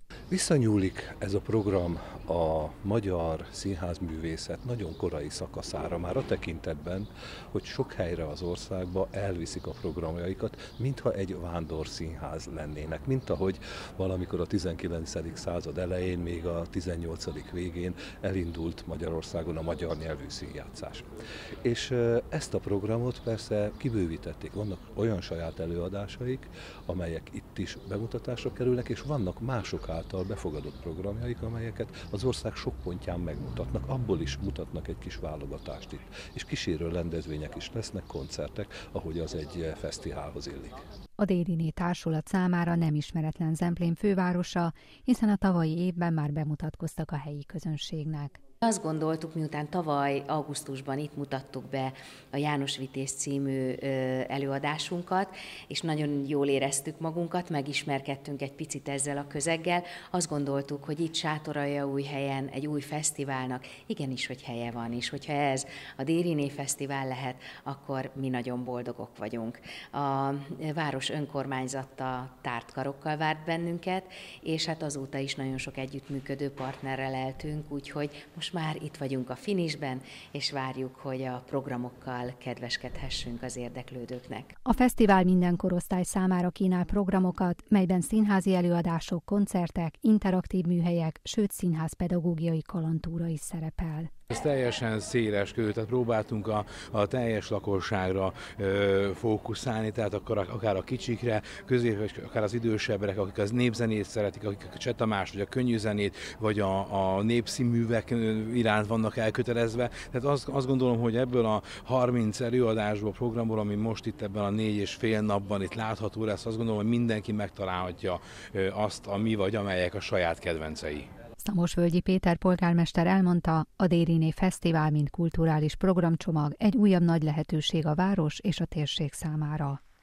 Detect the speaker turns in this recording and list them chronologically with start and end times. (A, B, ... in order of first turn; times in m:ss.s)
0:00.3-0:21.1 A
0:21.6-0:40.8 A
0:41.2-0:48.4 B
0:48.6-1:24.5 C
1:24.6-1:34.1 B
1:34.3-2:01.1 D
2:01.4-2:09.8 B